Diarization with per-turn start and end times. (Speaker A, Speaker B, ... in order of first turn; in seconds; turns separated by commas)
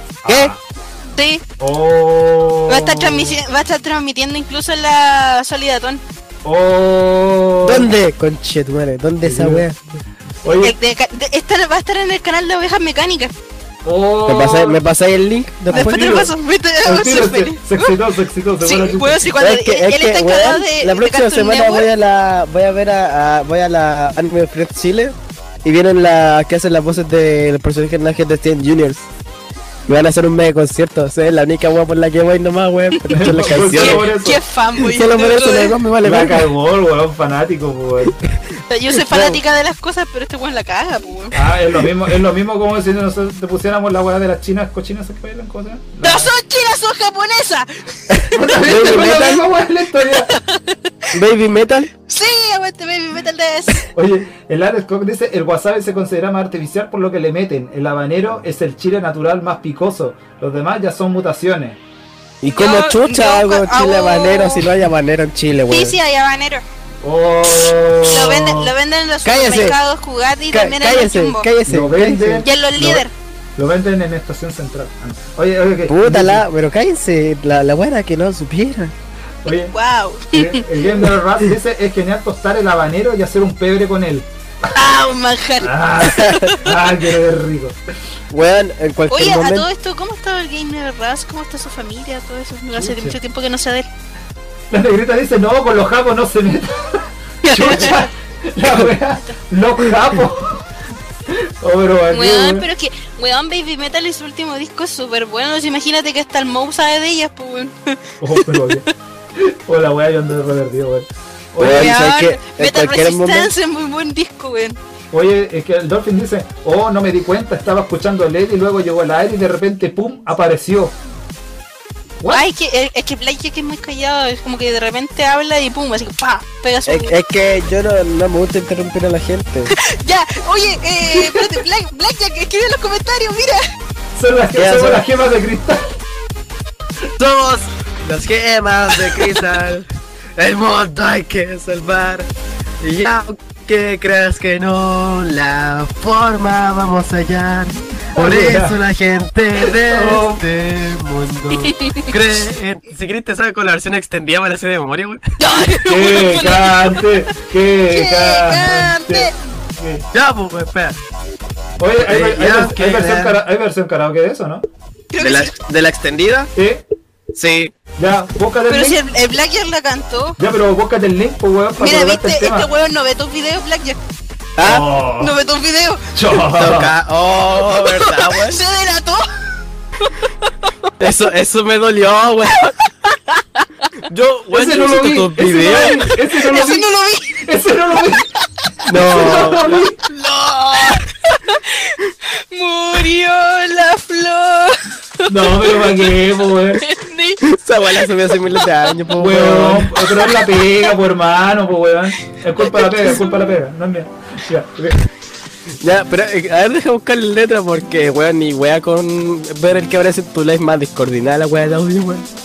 Speaker A: 0.2-0.6, Speaker B: 0.3-0.5, Speaker C: 1.2-1.4, Speaker A: 1.6-3.4, Speaker C: 2.7-6.0, Speaker A: 6.4-7.9, Speaker B: 7.6-9.8, Speaker A: 9.2-9.7, Speaker A: 10.4-10.8, Speaker C: 10.6-13.3, Speaker A: 13.8-14.8, Speaker B: 14.3-16.2, Speaker A: 15.7-16.3, Speaker C: 15.7-18.0, Speaker A: 16.8-19.3, Speaker C: 18.6-21.9, Speaker B: 19.4-29.1, Speaker B: 29.9-34.1, Speaker A: 33.1-34.4, Speaker C: 33.7-35.8, Speaker B: 34.8-36.5, Speaker A: 36.0-38.2, Speaker C: 38.7-41.4, Speaker B: 39.1-39.4, Speaker A: 41.3-46.3, Speaker C: 46.0-48.2, Speaker A: 48.3-50.3, Speaker B: 48.6-49.4, Speaker C: 48.9-49.2, Speaker C: 50.2-50.8, Speaker B: 51.1-51.9, Speaker C: 52.1-53.9, Speaker A: 53.9-61.8, Speaker B: 62.4-66.0, Speaker C: 62.5-64.7, Speaker C: 65.7-66.6, Speaker A: 67.0-68.7, Speaker C: 68.0-71.5, Speaker B: 69.2-69.8, Speaker B: 70.5-72.5, Speaker A: 71.7-73.0, Speaker C: 72.4-73.1, Speaker A: 73.6-76.5, Speaker B: 75.9-78.9, Speaker A: 79.4-79.7, Speaker C: 79.7-80.7, Speaker A: 80.3-84.3, Speaker C: 84.7-86.8, Speaker A: 85.6-87.8, Speaker B: 86.2-86.4, Speaker B: 88.3-89.7, Speaker C: 89.1-93.9, Speaker A: 92.8-93.2, Speaker A: 94.7-100.7, Speaker C: 97.4-98.1, Speaker A: 101.3-102.7, Speaker C: 102.1-108.9, Speaker A: 108.2-108.8, Speaker A: 109.4-112.0, Speaker B: 111.6-113.5, Speaker C: 111.6-114.8, Speaker A: 115.1-121.0, Speaker A: 122.2-122.5, Speaker C: 122.3-127.2, Speaker B: 126.9-129.7, Speaker C: 129.7-133.6, Speaker A: 131.1-131.5, Speaker A: 134.2-135.9, Speaker B: 134.6-135.0, Speaker B: 137.2-139.9, Speaker B: 140.4-142.3, Speaker B: 142.8-155.2, Speaker A: 148.2-148.8, Speaker A: 149.6-150.4, Speaker C: 151.7-152.0, Speaker C: 155.4-157.1, Speaker A: 155.8-160.1, Speaker C: 157.9-159.3, Speaker B: 160.1-161.0, Speaker A: 161.8-164.7, Speaker B: 162.0-163.4, Speaker C: 165.1-165.6, Speaker B: 165.2-166.5, Speaker A: 166.6-166.8, Speaker B: 167.3-167.7, Speaker A: 168.0-169.0, Speaker C: 168.7-170.4, Speaker A: 170.4-172.7, Speaker C: 171.8-174.0, Speaker B: 174.6-174.9, Speaker A: 174.6-175.4, Speaker C: 175.2-176.2, Speaker A: 176.1-176.9, Speaker B: 176.5-178.6, Speaker C: 177.7-179.3, Speaker C: 180.0-180.7, Speaker B: 181.0-182.8, Speaker B: 184.1-186.1, Speaker A: 184.5-188.3, Speaker C: 186.1-187.4, Speaker B: 188.9-189.8, Speaker A: 188.9-190.0, Speaker C: 190.1-196.1, Speaker B: 190.7-191.0, Speaker A: 195.3-196.8, Speaker C: 196.7-199.0, Speaker B: 197.4-200.0, Speaker A: 199.2-205.0, Speaker C: 200.2-200.6, Speaker C: 202.7-203.4, Speaker B: 205.8-212.3